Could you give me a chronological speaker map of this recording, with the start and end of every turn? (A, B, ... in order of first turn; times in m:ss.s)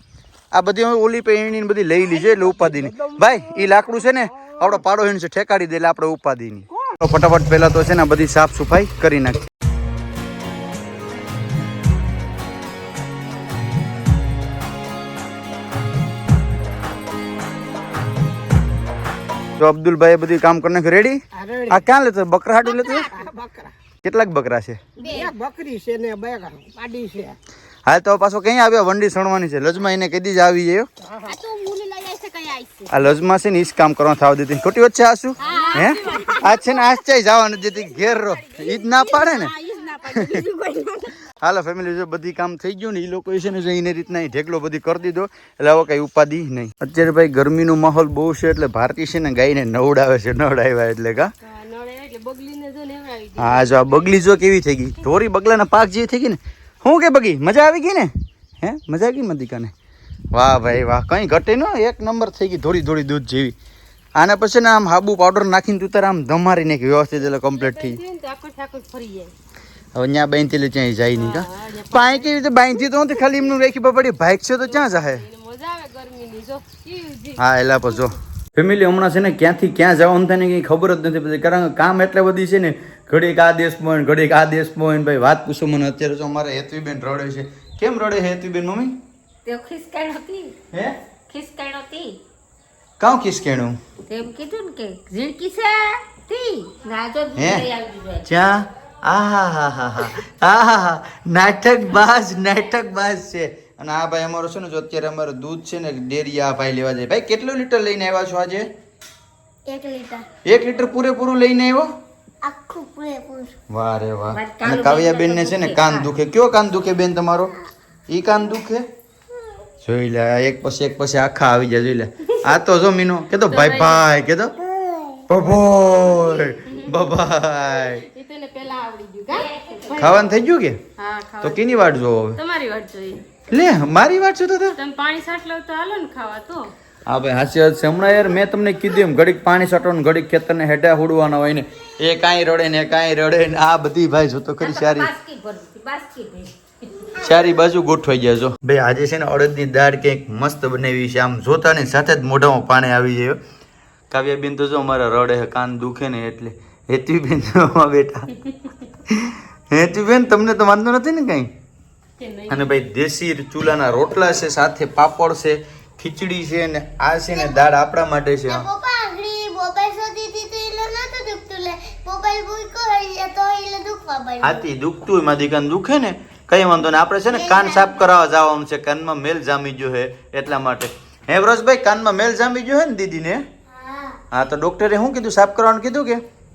0:00.5-0:09.4 A
0:19.6-0:23.1 A
0:21.4-0:21.7 B
0:22.8-0:23.1 C
0:23.2-0:23.7 B
0:24.0-0:24.8 A
0:25.0-0:25.3 C
0:25.1-0:27.4 B
0:27.8-0:30.9 A
0:31.2-0:32.9 D
0:32.9-0:39.5 A
0:35.4-0:36.8 D
0:35.5-0:36.4 C
0:38.1-0:40.7 D
0:40.0-0:40.4 A
0:41.4-0:51.3 A
0:51.4-0:53.9 D
0:53.4-0:59.7 A
1:00.3-1:03.5 A
1:04.2-1:08.0 A
1:07.4-1:09.3 D
1:09.9-1:15.2 A
1:11.1-1:13.4 D
1:14.6-1:18.0 D
1:17.4-1:29.0 A
1:29.4-1:30.6 C
1:31.3-1:32.2 C
1:33.0-1:33.8 A
1:34.1-1:38.3 C
1:37.4-1:37.6 A
1:38.3-1:48.7 A
1:49.7-1:50.2 E
1:50.4-1:51.9 A
1:52.4-1:53.6 E
1:53.7-1:57.5 A
1:54.3-1:56.1 C
1:58.1-1:58.8 A
1:59.8-2:04.6 A
2:03.5-2:04.1 D
2:04.7-2:05.2 E
2:05.3-2:08.0 A
2:06.7-2:07.0 D
2:07.9-2:10.3 D
2:09.3-2:10.2 C
2:10.0-2:10.8 A
2:11.0-2:11.7 D
2:11.4-2:12.4 A
2:12.4-2:13.3 D
2:13.5-2:14.8 A
2:14.7-2:16.7 D
2:17.1-2:25.1 A
2:24.6-2:27.1 C
2:27.2-2:33.4 A
2:34.1-2:38.3 A
2:38.4-2:38.7 D
2:39.1-2:41.5 A
2:42.2-2:42.7 D
2:42.5-2:48.7 A
2:47.3-2:47.7 E
2:48.5-2:54.6 E
2:54.4-3:03.4 A
2:57.3-2:58.1 E
3:03.7-3:04.2 E
3:04.3-3:06.2 A